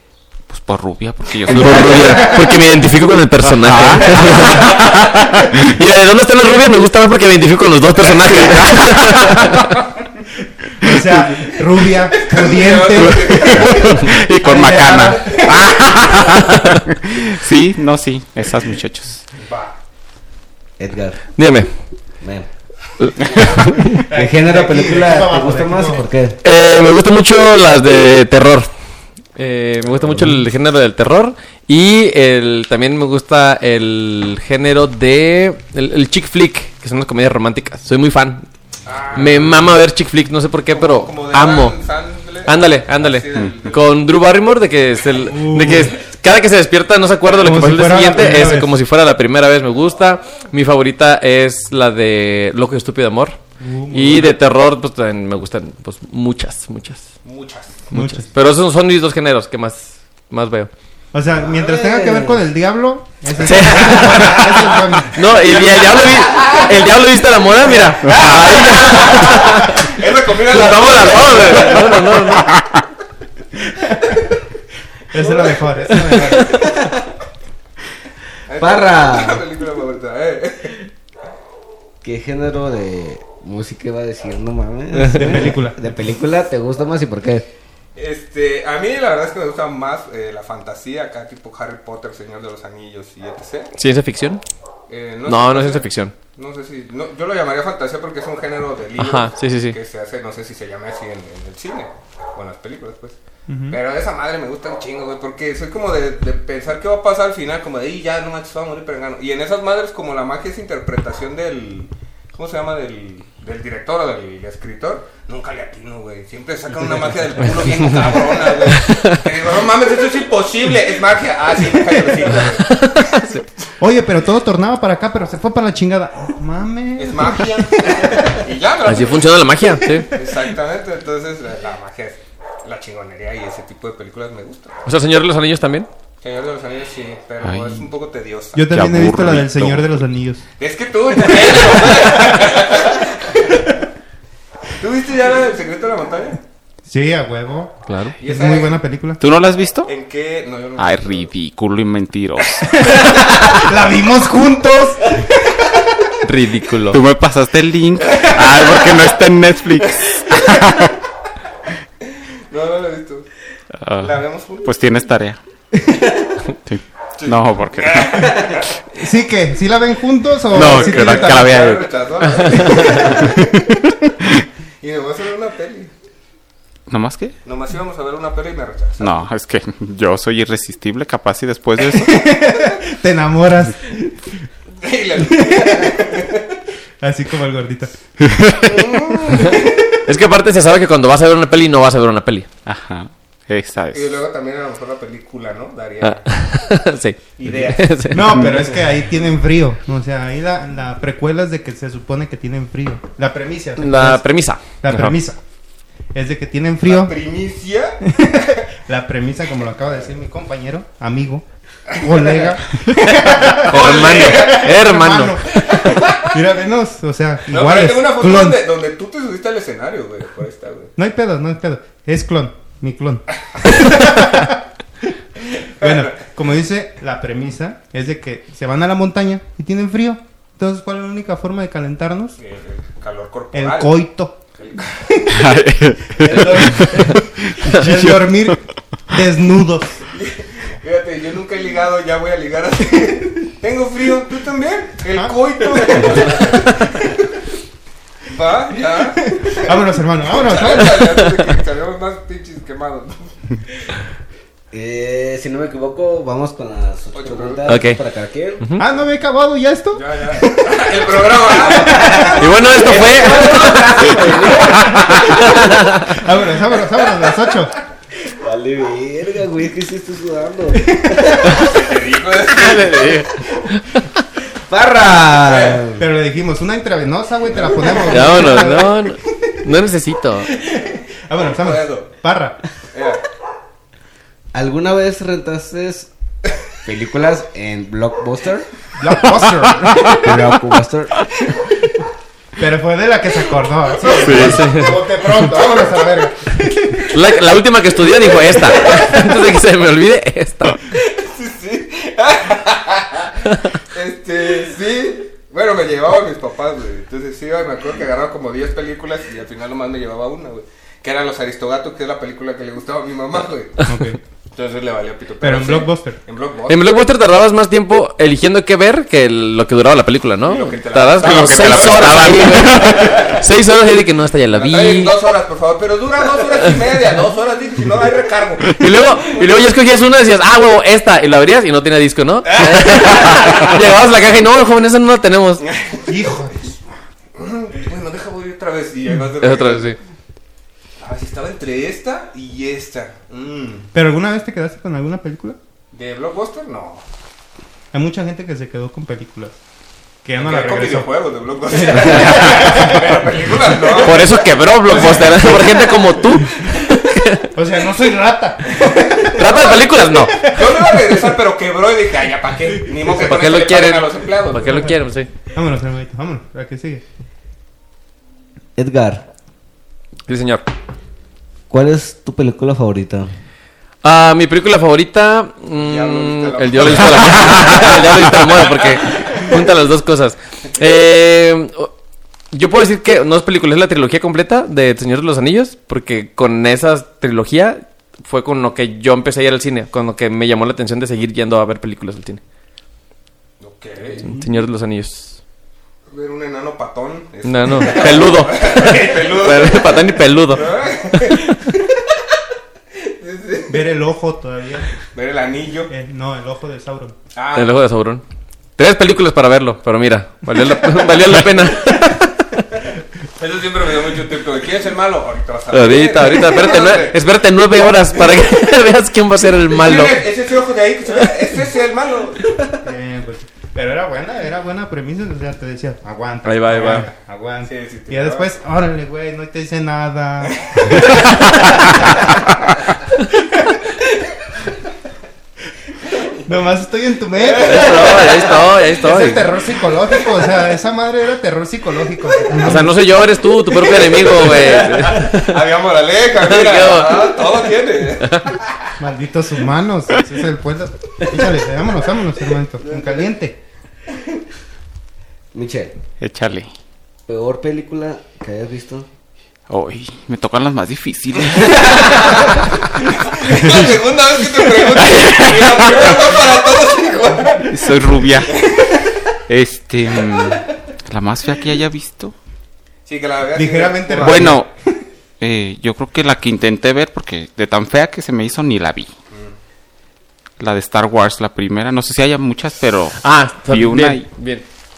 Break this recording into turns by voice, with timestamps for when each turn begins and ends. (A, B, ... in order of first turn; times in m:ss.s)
0:00.5-0:02.6 A
0:01.5-0:02.4 B
0:01.5-0:09.8 C
0:03.4-0:05.7 A
0:08.2-0:09.5 A
0:10.8-0:15.7 D
0:12.2-0:14.2 B
0:13.5-0:19.2 A
0:15.6-0:16.9 C
0:19.4-0:19.8 B
0:20.8-0:21.2 E
0:21.4-0:21.7 C
0:22.2-0:22.5 E
0:23.0-0:24.0 C
0:23.9-0:26.0 D
0:24.0-0:26.4 E
0:26.4-0:28.7 C
0:29.4-0:38.5 C
0:38.8-0:39.8 B
0:39.1-0:41.8 C
0:40.7-0:44.0 B
0:42.4-0:53.4 C
0:45.3-0:46.0 D
0:47.4-0:48.7 D
0:53.6-0:54.4 D
0:53.9-0:57.1 C
0:57.2-0:57.9 B
0:57.9-0:58.3 D
0:58.0-0:58.2 A
0:58.3-1:00.7 C
1:01.1-1:05.2 D
1:01.4-1:02.4 E
1:03.4-1:12.5 C
1:05.9-1:06.5 B
1:08.1-1:12.1 B
1:12.3-1:12.8 A
1:13.8-1:14.2 D
1:15.1-1:16.8 D
1:15.9-1:16.5 B
1:16.4-1:17.0 E
1:18.5-1:20.8 B
1:18.6-1:19.4 E
1:22.0-1:27.5 E
1:25.0-1:25.9 D
1:28.0-1:33.7 B
1:33.8-1:34.4 C
1:34.9-1:43.2 B
1:35.3-1:36.1 C
1:39.0-1:39.8 C
1:43.5-1:43.8 D
1:43.7-2:03.4 B
1:58.6-1:59.2 C
2:02.7-2:03.4 C
2:03.8-2:08.4 D
2:07.0-2:09.4 B
2:08.9-2:10.1 C
2:10.1-2:14.8 B
2:14.8-2:15.9 C
2:16.2-2:18.6 B
2:17.4-2:17.9 A
2:18.5-2:20.4 D
2:18.7-2:20.0 A
2:20.6-2:23.7 B
2:21.9-2:22.4 D
2:24.8-2:26.4 B
2:26.9-2:29.2 D
2:27.9-2:28.2 C
2:28.2-2:28.8 B
2:29.2-2:29.9 A
2:29.9-2:31.3 B
2:30.8-2:32.7 A
2:32.8-2:35.2 D
2:36.2-2:37.0 C
2:36.9-2:41.0 A
2:38.0-2:39.0 B
2:42.5-2:43.3 B
2:43.8-2:45.4 A
2:44.0-2:44.7 B
2:46.5-2:48.7 A
2:47.2-2:48.7 B
2:49.0-2:51.6 D
2:50.5-2:53.9 A
2:50.5-2:53.4 B
2:52.2-2:53.1 C
2:52.7-2:53.3 D
2:54.8-2:55.9 B
2:56.9-2:57.4 A
2:57.4-2:59.1 B
2:59.0-3:02.3 A
3:01.9-3:04.2 D
3:04.8-3:06.5 B
3:05.2-3:06.2 D
3:07.0-3:07.9 D
3:08.2-3:08.8 A
3:08.6-3:09.9 B
3:09.3-3:12.5 C
3:12.7-3:14.2 A
3:13.9-3:16.4 B
3:16.0-3:18.5 C
3:17.4-3:18.6 B
3:18.1-3:24.2 D
3:18.3-3:18.6 A
3:23.8-3:24.8 C
3:24.8-3:25.4 D
3:26.1-3:27.2 D
3:26.8-3:28.3 B
3:28.0-3:38.6 D
3:31.9-3:32.6 B
3:33.1-3:35.8 C
3:33.5-3:34.7 B
3:35.6-3:36.3 B
3:37.5-3:40.9 B
3:41.0-3:44.6 D
3:45.8-3:52.4 D
3:52.4-3:54.0 B
3:53.5-3:54.4 D
3:54.6-3:55.1 B
3:55.1-3:55.4 D
3:55.3-3:58.5 A
3:56.2-4:00.0 D
4:00.1-4:07.1 B
4:05.2-4:06.4 D
4:08.3-4:13.3 B
4:09.2-4:11.3 D
4:14.7-4:18.8 E
4:17.1-4:17.7 B
4:17.7-4:18.0 C
4:18.8-4:20.5 D
4:19.9-4:22.4 B
4:21.7-4:22.3 D
4:21.7-4:25.5 E
4:22.4-4:24.1 C
4:23.4-4:23.9 B
4:24.9-4:26.2 C
4:25.5-4:27.7 D
4:28.2-4:31.6 E
4:30.9-4:31.4 D
4:31.5-4:33.2 B
4:32.5-4:34.2 C
4:34.5-4:36.0 E
4:35.5-4:35.8 B
4:36.0-4:39.2 D
4:37.6-4:38.2 B
4:38.1-4:40.5 C
4:41.3-4:42.6 D
4:41.3-4:42.1 B
4:42.9-4:43.2 B
4:44.5-4:46.1 E
4:46.8-4:48.7 E
4:49.0-4:50.1 D
4:49.9-4:50.2 A
4:50.0-4:51.2 E
4:52.6-4:57.1 D
4:54.0-4:56.3 B
4:54.1-4:54.7 A
4:54.3-4:55.0 C
4:57.1-5:00.8 C
4:58.7-4:59.2 B
5:00.9-5:13.8 B
5:13.8-5:14.2 D
5:14.5-5:16.9 B
5:15.4-5:16.2 D
5:16.7-5:25.1 C
5:20.5-5:23.4 B
5:21.2-5:23.4 A
5:24.5-5:29.5 B
5:28.7-5:35.6 C
5:35.6-5:36.1 B
5:36.1-5:36.8 D
5:37.4-5:40.0 B
5:39.4-5:40.0 C
5:41.0-5:43.9 B
5:43.9-5:45.6 D
5:45.9-5:47.0 B
5:47.9-5:49.6 D
5:50.2-5:51.1 D
5:50.4-5:55.6 B
5:51.8-5:52.9 C
5:52.0-5:53.0 D
5:54.0-5:57.5 C
5:54.9-5:55.8 D
5:57.6-5:59.5 D
5:58.7-6:05.0 B
5:59.3-6:00.4 C
6:00.3-6:01.2 D
6:03.0-6:03.3 D
6:03.1-6:05.3 C
6:05.5-6:07.0 D
6:08.8-6:09.2 E
6:10.3-6:10.7 C
6:11.7-6:13.3 E
6:14.0-6:21.9 C
6:15.8-6:19.6 B
6:22.5-6:32.4 C
6:33.6-6:34.2 B
6:34.2-6:35.4 C
6:36.1-6:41.7 B
6:37.4-6:40.7 C
6:43.0-6:43.9 B
6:43.7-6:44.9 D
6:45.0-6:45.9 B
6:45.9-6:47.2 D
6:47.4-6:47.8 B
6:47.5-6:48.2 C
6:48.8-6:52.6 C
6:53.4-6:57.2 B
6:55.7-7:00.2 C
6:59.7-7:02.7 B
7:02.8-7:12.4 D
7:06.4-7:07.1 C
7:07.6-7:08.5 B
7:10.7-7:11.2 B
7:16.3-7:18.3 D
7:17.4-7:18.7 B
7:17.6-7:19.4 C
7:19.0-7:23.1 D
7:19.9-7:20.5 B
7:22.6-7:25.6 C
7:23.7-7:28.9 B
7:26.4-7:27.4 C
7:28.2-7:28.6 C
7:29.0-7:33.6 D
7:32.8-7:33.3 B
7:35.5-7:36.0 E
7:36.2-7:36.7 A
7:37.3-7:39.1 E
7:39.7-7:42.2 A
7:41.8-7:47.8 B
7:47.7-7:48.7 A
7:48.6-7:49.0 B
7:49.5-7:52.3 A
7:53.1-7:54.6 B
7:53.6-7:55.0 D
7:54.2-7:54.7 A
7:55.4-7:59.1 A
8:00.6-8:04.3 A
8:03.2-8:04.6 C